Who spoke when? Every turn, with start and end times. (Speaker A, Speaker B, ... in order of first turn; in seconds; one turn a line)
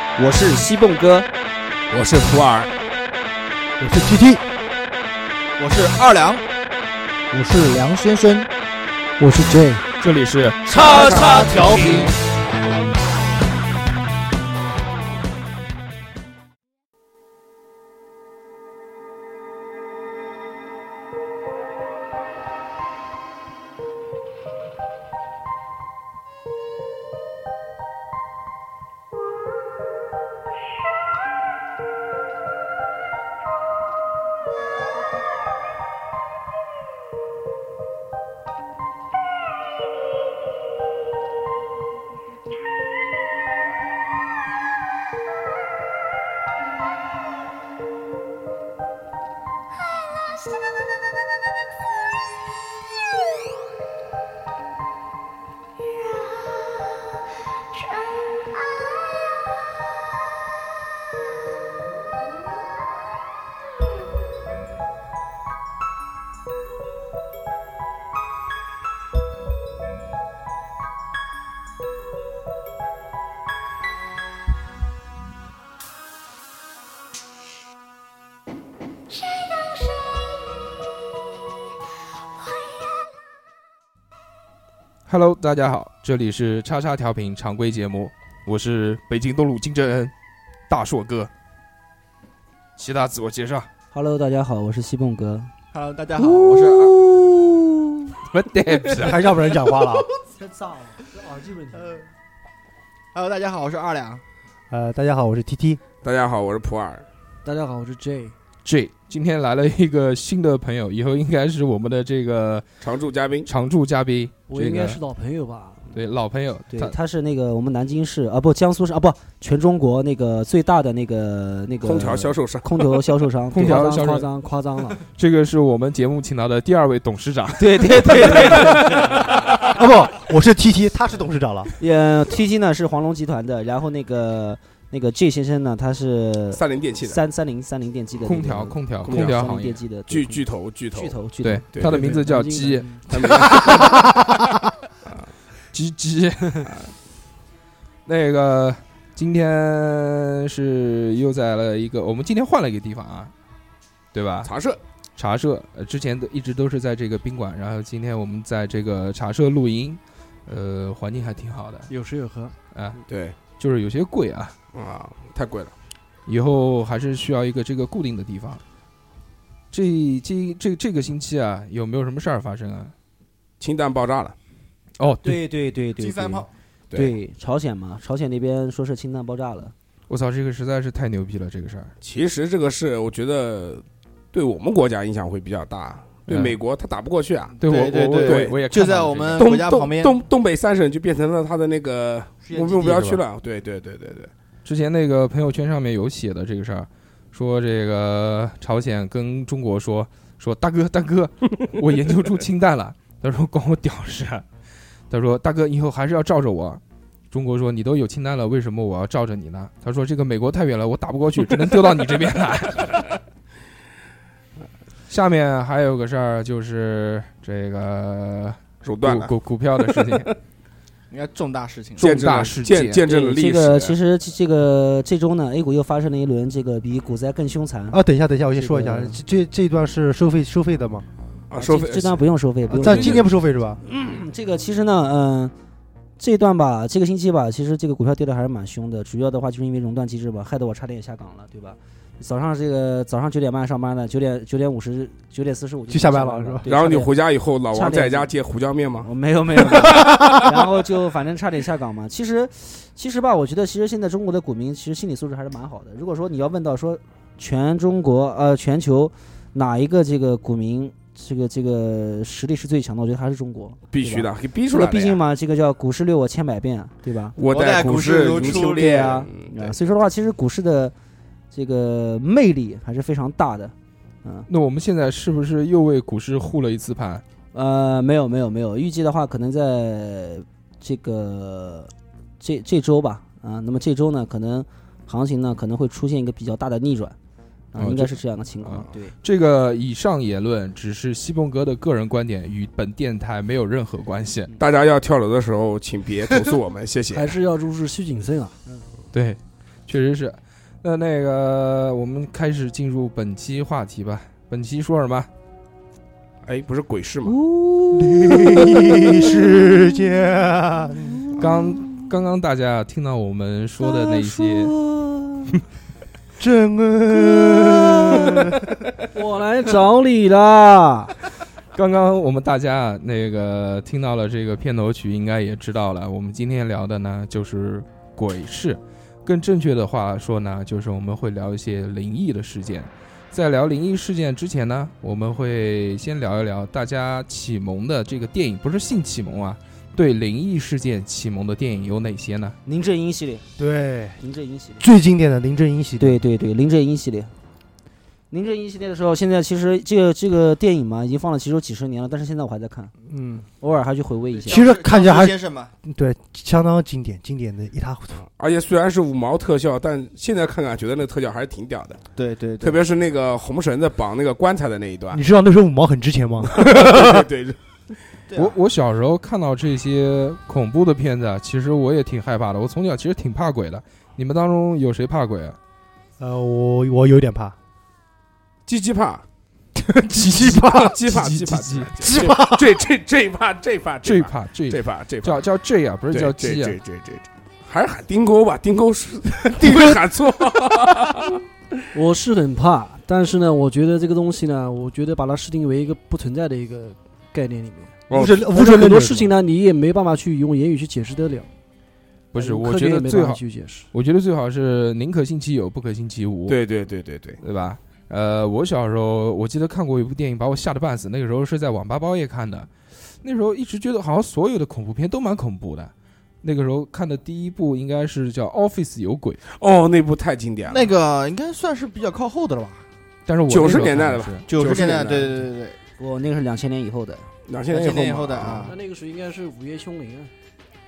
Speaker A: 0.2-1.3
Speaker B: 1.9-2.7
Speaker C: 3.8-4.4
Speaker D: 5.6-6.4
Speaker C: 7.3-8.4
Speaker E: 9.2-9.8
Speaker B: 10.0-11.4
Speaker D: 10.7-12.1
Speaker C: 10.8-12.1
Speaker B: 85.1-90.1
Speaker B: 90.7-91.3
Speaker B: 92.8-93.7
Speaker A: 93.9-95.5
Speaker D: 95.7-97.0
Speaker B: 96.2-99.3
Speaker C: 99.0-100.1
Speaker E: 100.4-102.0
Speaker D: 103.1-104.2
Speaker C: 104.7-105.8
Speaker F: 106.0-107.0
Speaker E: 107.4-108.3
Speaker B: 108.6-112.7
Speaker F: 112.8-113.5
Speaker B: 113.5-115.0
Speaker E: 114.5-115.8
Speaker B: 115.9-117.0
Speaker A: 116.7-124.2
Speaker F: 121.8-123.0
Speaker B: 123.5-124.3
Speaker E: 123.6-125.0
Speaker B: 125.1-129.5
Speaker A: 127.6-129.0
Speaker C: 129.7-131.7
Speaker A: 131.8-140.4
Speaker F: 136.5-137.2
Speaker B: 138.2-139.8
Speaker F: 139.0-139.4
Speaker F: 140.1-141.1
Speaker A: 140.9-141.7
Speaker B: 141.4-144.3
Speaker F: 141.7-142.1
Speaker E: 141.8-143.1
Speaker F: 143.1-144.2
Speaker B: 145.7-146.7
Speaker F: 146.7-146.9
Speaker B: 148.1-153.3
Speaker B: 154.1-154.5
Speaker F: 154.4-154.8
Speaker B: 155.2-161.9
Speaker E: 161.9-162.6
Speaker B: 162.7-164.5
Speaker F: 163.1-163.3
Speaker F: 164.7-165.7
Speaker B: 166.3-168.6
Speaker B: 169.7-172.9
Speaker F: 173.6-174.3
Speaker B: 175.0-175.4
Speaker A: 175.2-179.7
Speaker D: 176.0-176.5
Speaker B: 180.1-181.9
Speaker F: 182.0-187.6
Speaker B: 186.3-186.6
Speaker B: 187.6-189.5
Speaker D: 187.6-190.2
Speaker F: 188.1-188.6
Speaker F: 189.4-194.3
Speaker D: 192.5-193.2
Speaker B: 194.6-204.4
Speaker B: 205.1-213.1
Speaker B: 215.1-220.3
Speaker F: 218.8-220.3
Speaker D: 221.1-222.2
Speaker F: 222.0-223.9
Speaker B: 222.0-223.0
Speaker A: 223.1-228.0
Speaker C: 227.9-231.0
Speaker A: 228.5-229.2
Speaker F: 231.5-232.2
Speaker A: 231.6-233.2
Speaker C: 232.7-233.8
Speaker F: 232.9-233.2
Speaker A: 233.8-235.5
Speaker A: 236.2-247.1
Speaker C: 245.9-246.7
Speaker F: 246.7-250.5
Speaker A: 247.7-248.3
Speaker A: 249.0-267.4
Speaker F: 263.9-265.2
Speaker F: 267.4-269.8
Speaker D: 267.4-269.2
Speaker A: 268.4-270.9
Speaker A: 271.5-274.5
Speaker B: 274.5-277.2
Speaker A: 277.5-287.1
Speaker A: 287.7-289.1
Speaker B: 287.8-294.5
Speaker F: 294.6-297.4
Speaker E: 297.1-298.6
Speaker B: 299.1-305.3
Speaker F: 306.4-307.4
Speaker B: 307.3-308.7
Speaker C: 307.9-311.4
Speaker B: 311.4-314.7
Speaker C: 316.4-318.8
Speaker E: 319.1-321.1
Speaker B: 321.7-342.6
Speaker A: 342.6-343.4
Speaker C: 343.6-344.2
Speaker A: 344.2-344.8
Speaker C: 344.8-346.2
Speaker A: 346.0-347.3
Speaker A: 348.3-352.9
Speaker C: 353.1-353.5
Speaker A: 353.6-354.6
Speaker D: 354.4-355.7
Speaker C: 354.5-358.2
Speaker F: 358.3-362.0
Speaker D: 362.1-362.8
Speaker F: 362.6-365.2
Speaker C: 365.1-367.2
Speaker F: 366.5-367.6
Speaker D: 368.3-368.6
Speaker B: 368.3-375.6
Speaker C: 376.2-377.5
Speaker F: 378.7-379.2
Speaker C: 379.8-381.0
Speaker B: 380.4-382.2
Speaker F: 380.6-385.5
Speaker C: 382.0-382.8
Speaker B: 384.0-386.8
Speaker F: 386.1-391.4
Speaker C: 389.6-390.0
Speaker E: 391.9-401.5
Speaker F: 398.1-398.4
Speaker C: 398.1-399.3
Speaker B: 402.3-406.6
Speaker E: 402.4-403.9
Speaker F: 406.5-407.4
Speaker B: 407.4-412.7
Speaker B: 413.2-415.9
Speaker B: 416.4-419.4
Speaker F: 419.5-420.9
Speaker D: 420.7-422.8
Speaker B: 423.2-424.4
Speaker F: 423.5-425.3
Speaker D: 424.5-425.8
Speaker A: 426.0-427.2
Speaker F: 427.5-428.7
Speaker D: 427.7-428.8
Speaker E: 428.6-430.3